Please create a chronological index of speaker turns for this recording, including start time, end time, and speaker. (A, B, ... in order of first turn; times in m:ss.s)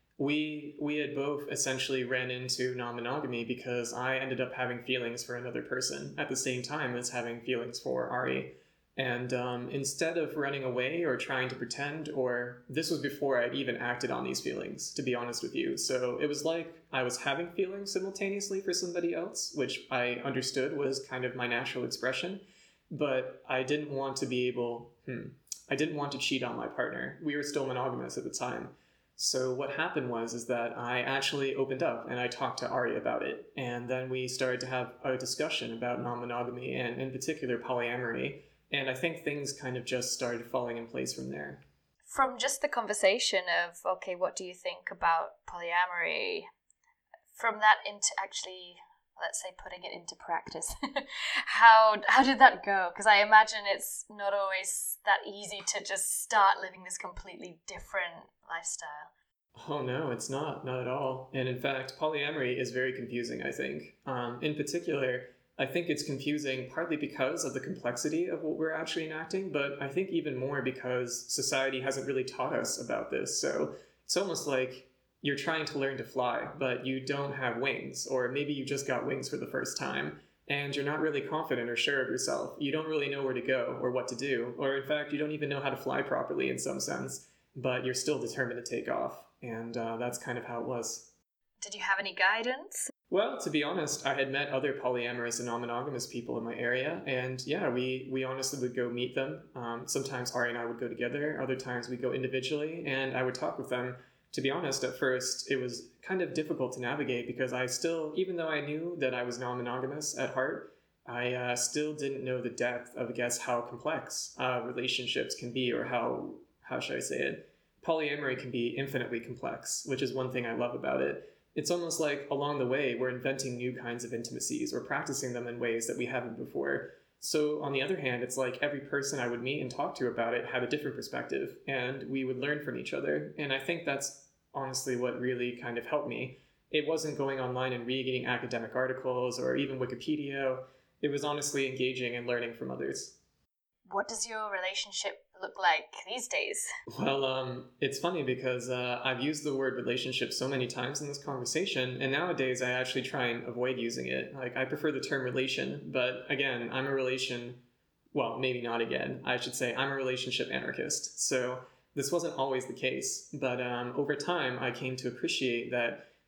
0:00.2-0:41.6 A
0:42.1-0:46.5 B
0:47.4-0:59.1 B
0:59.6-1:31.1 A
1:31.6-1:32.9 B
1:33.1-2:23.2 A
2:23.9-2:26.7 B
2:26.9-2:37.6 A
2:38.1-2:46.1 A